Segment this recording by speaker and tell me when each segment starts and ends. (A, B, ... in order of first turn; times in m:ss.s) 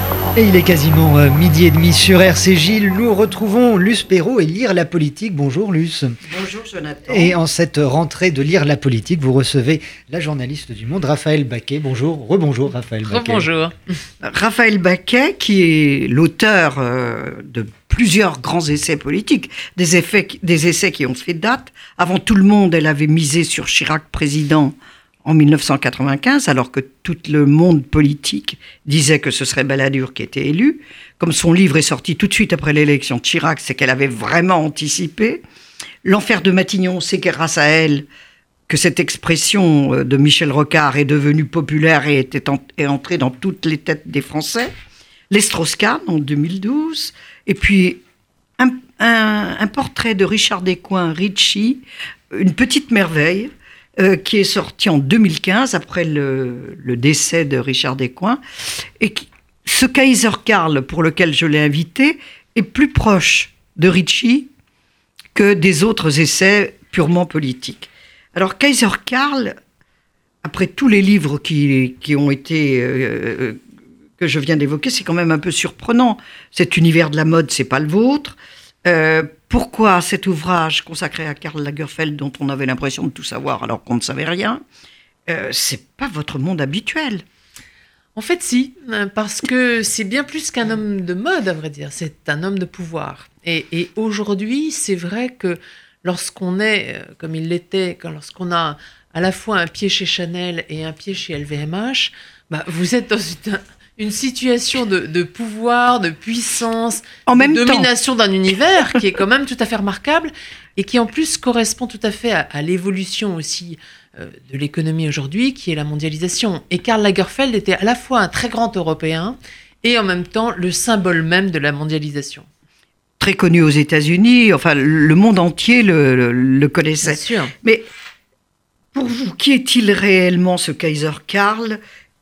0:00.4-0:06.2 A
0:06.3-0:07.4 B
0:07.1-0:13.5 A
0:13.0-0:14.0 C
0:14.2-0:35.4 B
0:36.0-0:38.0 B
0:38.7-0:44.7 B
0:45.3-0:48.0 B
0:48.6-0:58.4 B
0:59.0-1:04.5 B
1:05.3-1:09.5 B
1:10.4-1:13.6 B
1:14.2-1:24.6 B
1:25.3-1:27.2 B
1:28.2-2:02.5 C
1:47.3-1:47.9 B
2:03.2-2:07.8 B
2:07.0-2:07.5 C
2:08.9-2:11.8 B